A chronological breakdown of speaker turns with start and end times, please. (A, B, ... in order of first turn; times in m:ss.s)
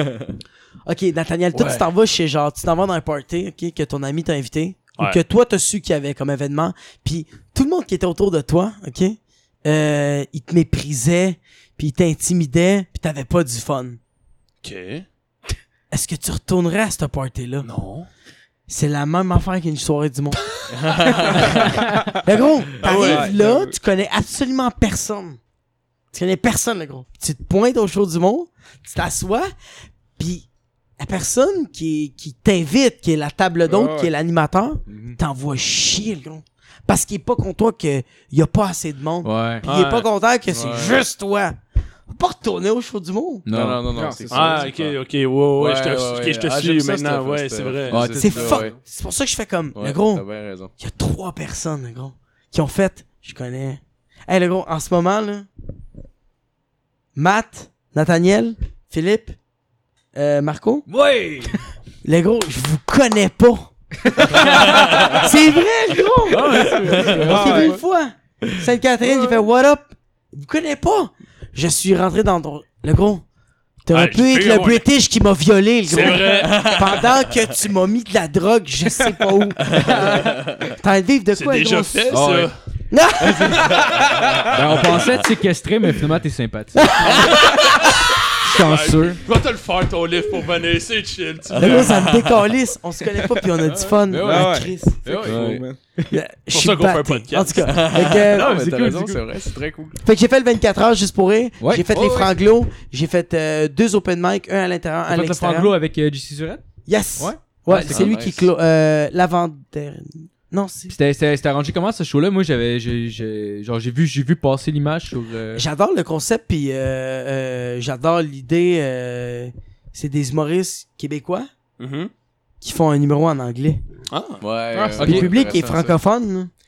0:00.8-0:14.0 A
0:14.6-0:15.0 B
0:15.9-0:17.7 A
0:17.6-0:18.1 B
0:18.7-0:20.4 A
0:20.8-0:21.5 C
0:21.3-0:25.4 A
0:22.8-0:23.3 B
0:22.9-0:23.8 D
0:26.1-0:29.5 A
0:30.2-0:30.5 A
0:31.0-0:41.6 A
0:33.7-0:34.1 D
0:34.9-0:35.2 C
0:39.2-0:39.6 E
0:39.6-0:40.1 B
0:40.5-0:41.0 C
0:42.1-0:43.4 A
0:43.4-0:43.8 E
0:43.5-0:45.0 C
0:43.9-0:44.7 D
0:44.3-0:48.0 B
0:45.6-0:48.8 C
0:47.9-0:48.7 E
0:48.2-0:50.2 A
0:49.7-0:50.7 C
0:50.8-0:55.5 A
0:57.1-0:59.4 A
1:00.1-1:00.9 A
1:00.9-1:01.5 E
1:02.0-1:13.2 A
1:04.3-1:05.3 E
1:06.2-1:07.8 E
1:06.3-1:07.4 C
1:07.0-1:07.8 D
1:13.8-1:22.2 A
1:13.9-1:14.8 B
1:15.9-1:16.7 B
1:16.0-1:17.1 C
1:19.7-1:20.3 C
1:21.3-1:22.5 B
1:22.1-1:22.5 E
1:22.9-1:23.8 A
1:24.2-1:25.2 C
1:24.5-1:27.6 E
1:26.8-1:27.3 A
1:27.3-1:32.0 B
1:28.4-1:29.2 E
1:31.5-1:32.1 C
1:31.6-1:35.3 A
1:33.7-1:35.6 E
1:34.2-1:35.8 D
1:35.2-1:35.6 C
1:36.1-1:38.6 A
1:36.5-1:37.7 B
1:37.6-1:40.0 C
1:38.3-1:39.2 E
1:40.0-1:45.7 A
1:41.6-1:42.4 E
1:45.1-1:46.6 E
1:46.8-1:50.9 A
1:47.2-1:48.1 E
1:47.9-1:48.5 C
1:50.9-1:55.6 E
1:55.5-2:01.5 A
2:01.8-2:02.1 B
2:02.6-2:03.8 A
2:04.1-2:04.4 B
2:04.4-2:06.0 C
2:04.7-2:05.2 D
2:04.9-2:06.5 A
2:05.0-2:05.3 E